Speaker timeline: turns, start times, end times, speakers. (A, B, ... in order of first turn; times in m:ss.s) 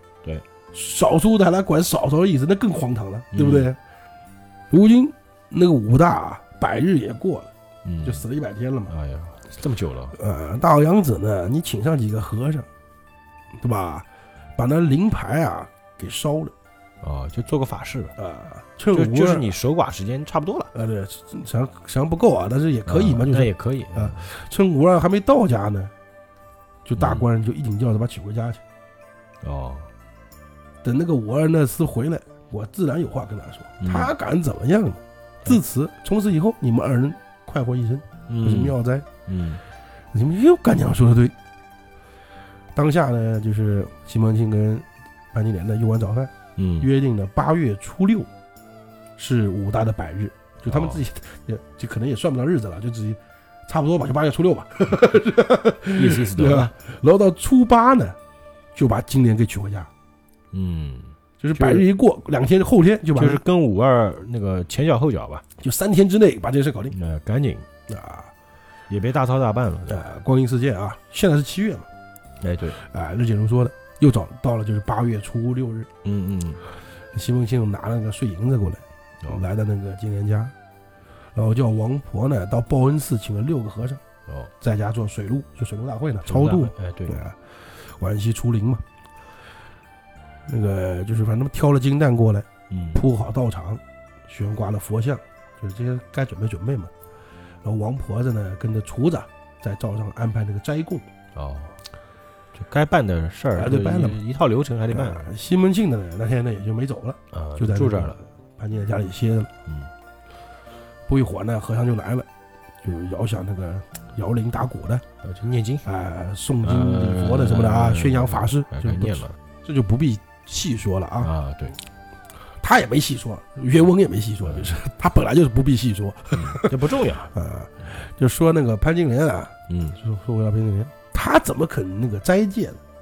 0:00.7-0:03.8 A
0:03.3-0:03.7 B
0:04.7-0:07.5 A
0:07.8-0:08.2 B
0:08.0-0:08.9 A
0:08.9-0:10.2 B
0:10.1-0:12.7 A
0:13.6-0:16.5 A
0:17.0-0:18.1 B
0:18.2-0:19.5 A
0:18.9-0:20.7 B
0:20.7-0:25.9 A
0:22.9-0:24.2 B
0:26.8-0:28.6 A
0:27.0-0:27.2 B
0:29.4-0:29.9 B
0:30.8-0:39.1 A
0:33.8-0:34.1 B
0:38.3-0:39.6 B
0:40.1-0:41.3 A
0:42.7-0:48.3 A
0:46.6-0:46.9 B
0:49.2-0:58.2 A
0:50.7-0:51.0 B
0:55.9-0:56.7 B
0:58.7-0:59.9 A
1:00.5-1:01.9 B
1:01.4-1:03.4 A
1:03.1-1:05.4 B
1:05.6-1:07.0 A
1:06.9-1:07.7 B
1:07.9-1:08.3 A
1:08.9-1:10.1 B
1:09.9-1:11.9 A
1:12.4-1:12.8 B
1:12.7-1:15.9 A
1:16.0-1:16.6 B
1:17.1-1:20.5 A
1:21.3-1:24.0 A
1:24.3-1:24.5 B
1:24.6-1:28.8 A
1:26.2-1:27.2 B
1:30.5-1:36.9 A
1:32.7-1:33.0 B
1:37.6-1:41.0 A
1:41.3-1:41.8 B
1:42.5-1:45.3 B
1:43.5-1:44.2 A
1:44.9-1:49.5 A
1:47.3-1:48.2 B
1:51.1-1:52.2 A
1:52.8-1:55.0 A
1:55.2-1:55.8 B
1:55.8-2:01.3 A
1:56.6-1:59.4 B
2:01.2-2:01.8 B
2:02.6-2:12.8 A
2:04.4-2:04.7 B
2:06.3-2:07.3 B
2:09.7-2:10.0 B